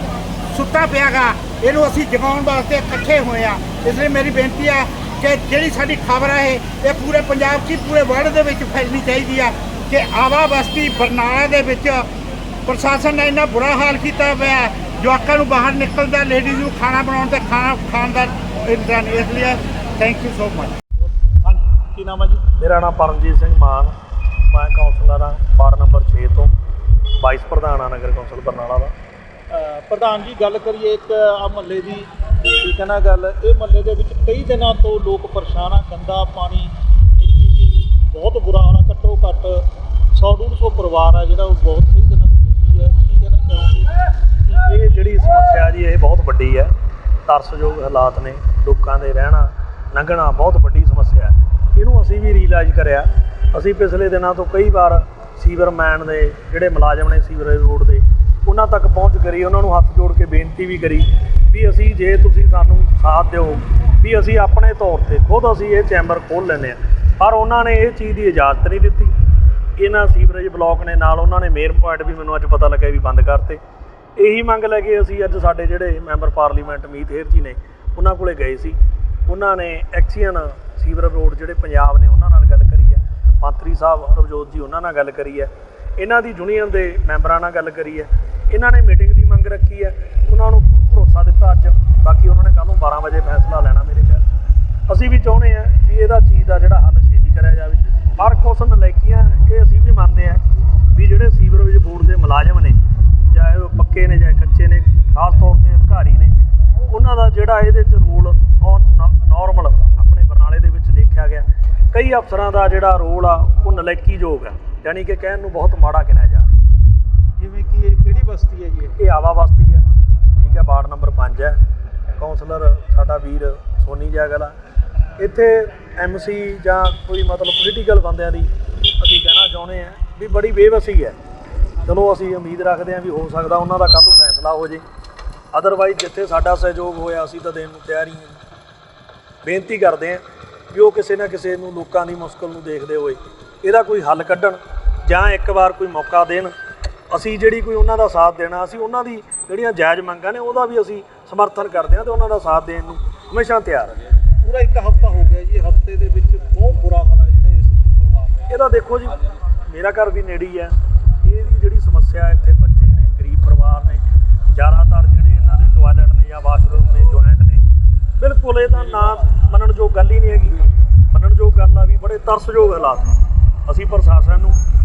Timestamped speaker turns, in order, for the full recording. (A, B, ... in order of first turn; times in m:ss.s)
0:00.5-0:12.1 A
0:12.6-0:20.8 A
0:21.0-0:22.4 B
0:22.6-0:23.9 C
0:24.5-0:26.5 C
0:27.2-0:28.9 C
0:29.5-0:32.1 B
0:32.6-0:39.6 B
0:40.1-0:43.9 B
0:44.6-0:46.7 C
0:47.3-1:09.1 C
1:09.8-1:13.6 C
1:14.2-1:18.8 C
1:19.3-1:34.2 C
1:34.9-1:40.4 C
1:40.9-1:42.8 C
1:43.3-1:46.3 C
1:46.9-1:56.5 C
1:57.4-1:59.0 B
1:59.0-1:59.8 C
2:00.4-2:01.6 C
2:02.2-2:04.5 C
2:05.2-2:11.2 C
2:11.8-2:14.8 C
2:15.5-2:18.4 C
2:19.4-2:26.5 C
2:27.1-2:34.1 C
2:34.4-2:38.5 B
2:38.5-2:47.6 C
2:48.2-2:53.1 C
2:53.7-2:54.6 C